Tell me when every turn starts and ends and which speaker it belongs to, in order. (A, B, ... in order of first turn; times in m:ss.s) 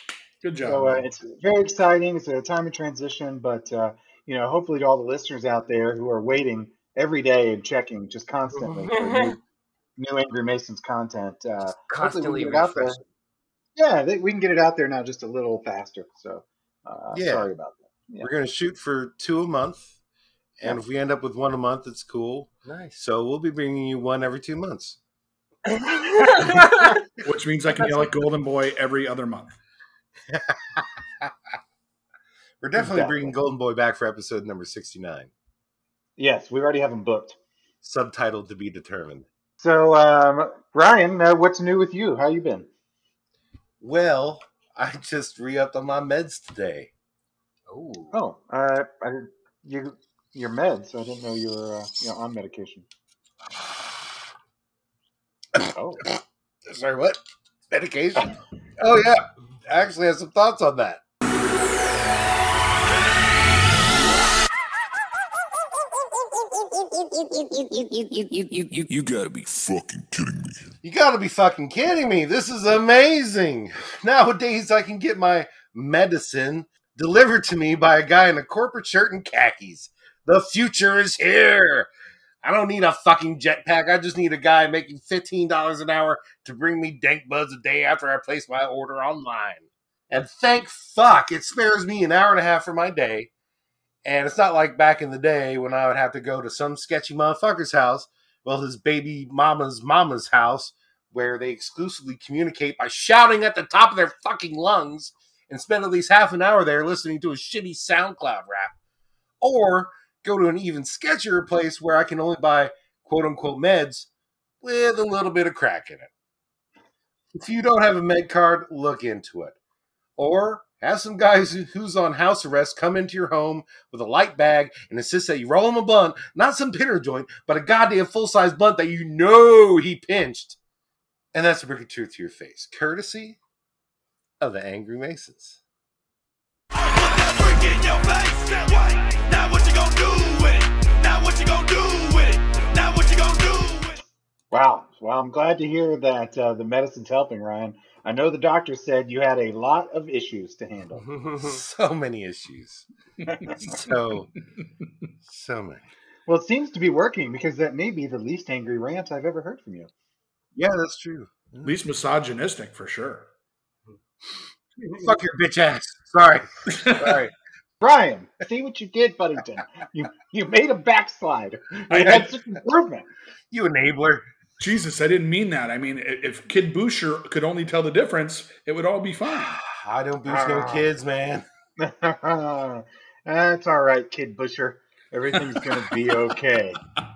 0:00.4-0:01.1 A
0:00.6-0:09.4 B
0:08.5-0:09.3 C
0:10.0-0:13.0 B
0:11.9-0:13.0 C
0:13.8-0:18.3 B
0:17.1-0:17.5 D
0:18.2-0:20.0 D
0:20.6-0:25.0 D
0:22.6-0:23.0 C
0:25.7-0:27.0 C
0:27.2-0:29.5 A
0:30.3-0:31.3 D
0:32.6-0:35.3 D
0:32.7-0:33.3 B
0:36.2-0:37.4 B
0:37.8-0:39.3 D
0:39.6-0:42.7 B
0:43.8-0:46.9 D
0:47.7-0:48.2 C
0:48.1-0:52.8 B
0:55.6-1:01.0 D
0:55.7-0:56.0 B
1:07.8-1:10.6 E
1:10.8-1:21.9 D
1:22.4-1:33.3 D
1:34.0-1:48.8 D
1:49.4-1:54.1 D
1:54.6-1:56.1 D
1:57.4-1:59.6 D
2:00.2-2:10.6 D
2:11.3-2:13.4 D
2:14.4-2:15.6 D
2:16.8-2:24.0 D
2:24.5-2:31.0 B
2:31.0-2:31.6 C
2:31.4-2:32.9 D
2:33.5-2:34.3 D
2:35.2-2:35.9 D
2:36.3-2:39.9 B
2:40.5-2:41.7 D
2:41.6-2:43.3 A
2:45.0-2:47.3 D
2:46.7-2:47.2 A
2:47.8-2:53.1 B
2:51.9-2:52.2 A
2:52.0-2:52.3 D
2:53.5-2:54.2 D
2:54.6-2:59.6 A
2:59.3-3:01.4 D
3:00.2-3:00.9 B
3:01.8-3:06.8 B
3:05.5-3:05.9 A